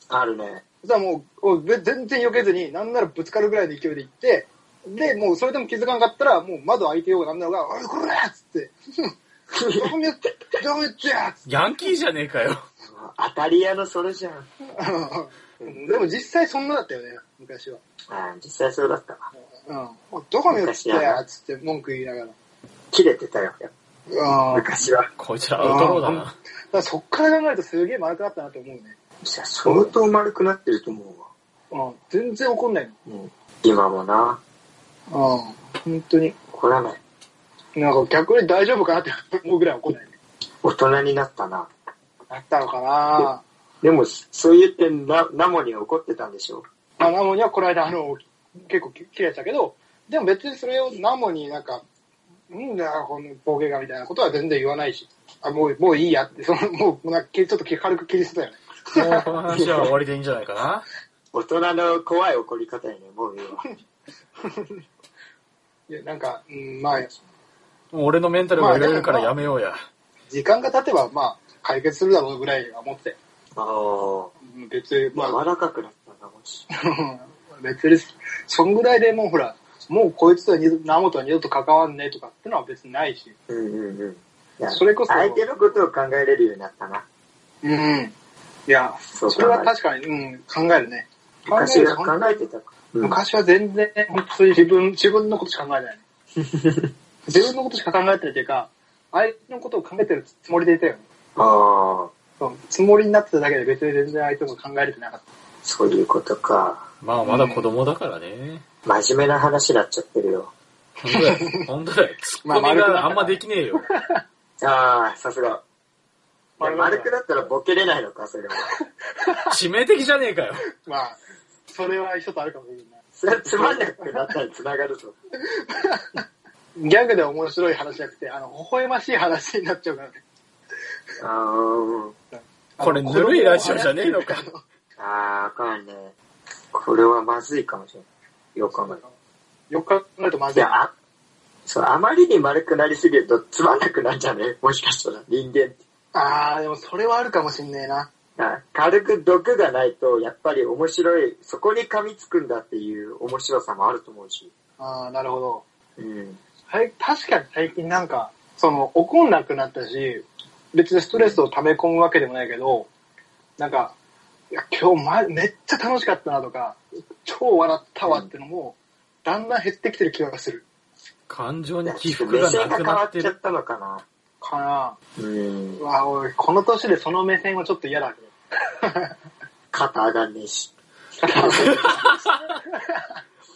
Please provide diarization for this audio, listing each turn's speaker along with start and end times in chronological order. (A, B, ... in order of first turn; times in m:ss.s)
0:00.1-0:00.6 A
0:00.8-0:09.1 B
0:09.5-0:09.9 A
0:09.8-0:11.4 B
0:11.5-0:12.6 C
0:12.8-0:14.5 A
0:14.7-0:17.8 B
0:15.6-0:15.9 A
0:18.1-0:19.3 A
0:19.6-0:22.3 B
0:20.5-0:21.2 A
0:22.9-0:23.7 A
0:24.1-0:24.8 B
0:24.5-0:25.1 A
0:25.2-0:26.4 C
0:25.6-0:29.0 B
0:29.2-0:31.3 A
0:29.6-0:29.9 B
0:31.7-0:32.9 B
0:33.0-0:34.4 A
0:35.1-0:36.4 B
0:36.5-0:37.0 A
0:37.8-0:40.1 B
0:40.6-0:41.7 A
0:42.3-0:43.4 B
0:43.8-0:46.6 A
0:47.0-0:51.8 B
0:52.5-0:59.2 B
0:58.9-1:00.8 C
0:59.5-0:59.9 A
1:01.3-1:03.6 A
1:04.4-1:04.8 B
1:05.9-1:07.1 B
1:07.9-1:09.8 C
1:08.5-1:09.3 B
1:10.3-1:13.2 B
1:13.6-1:14.3 A
1:14.4-1:15.4 B
1:15.1-1:16.6 A
1:16.9-1:23.3 B
1:23.5-1:27.0 A
1:24.7-1:25.4 B
1:27.6-1:28.1 B
1:28.7-1:32.4 B
1:29.1-1:29.7 A
1:31.5-1:33.2 A
1:33.0-1:36.0 B
1:36.4-1:36.9 A
1:37.3-1:41.0 B
1:41.4-1:42.1 A
1:42.4-1:45.2 B
1:45.6-1:46.8 A
1:47.0-1:48.6 C
1:47.2-1:47.6 B
1:48.8-1:50.5 A
1:51.0-1:53.8 C
1:51.2-1:51.6 B
1:52.4-1:54.2 B
1:54.6-1:55.6 A
1:56.6-1:57.1 B
1:56.6-1:58.7 A
1:59.2-1:59.6 B
1:59.5-2:00.6 C
2:00.8-2:03.0 B
2:03.2-2:05.1 A
2:03.5-2:04.3 B
2:05.6-2:06.2 B
2:06.8-2:10.2 B
2:11.2-2:12.1 A
2:12.3-2:14.6 B
2:12.8-2:14.4 C
2:15.0-2:16.1 A
2:16.7-2:19.0 A
2:18.8-2:19.1 B
2:19.7-2:20.8 B
2:20.5-2:20.9 A
2:21.6-2:25.8 A
2:26.1-2:28.1 B
2:28.4-2:34.5 A
2:34.8-2:35.6 B
2:36.0-2:36.4 A
2:36.7-2:42.9 B
2:41.1-2:41.4 A
2:43.6-2:43.9 B
2:44.5-2:50.6 B
2:48.0-2:48.3 A
2:51.3-2:53.3 C
2:51.8-2:54.0 A
2:54.4-2:55.0 B
2:55.2-2:55.8 A
2:55.8-2:59.1 B
2:59.7-3:00.7 A
3:01.2-3:03.1 B
3:01.2-3:02.0 A
3:01.6-3:02.5 C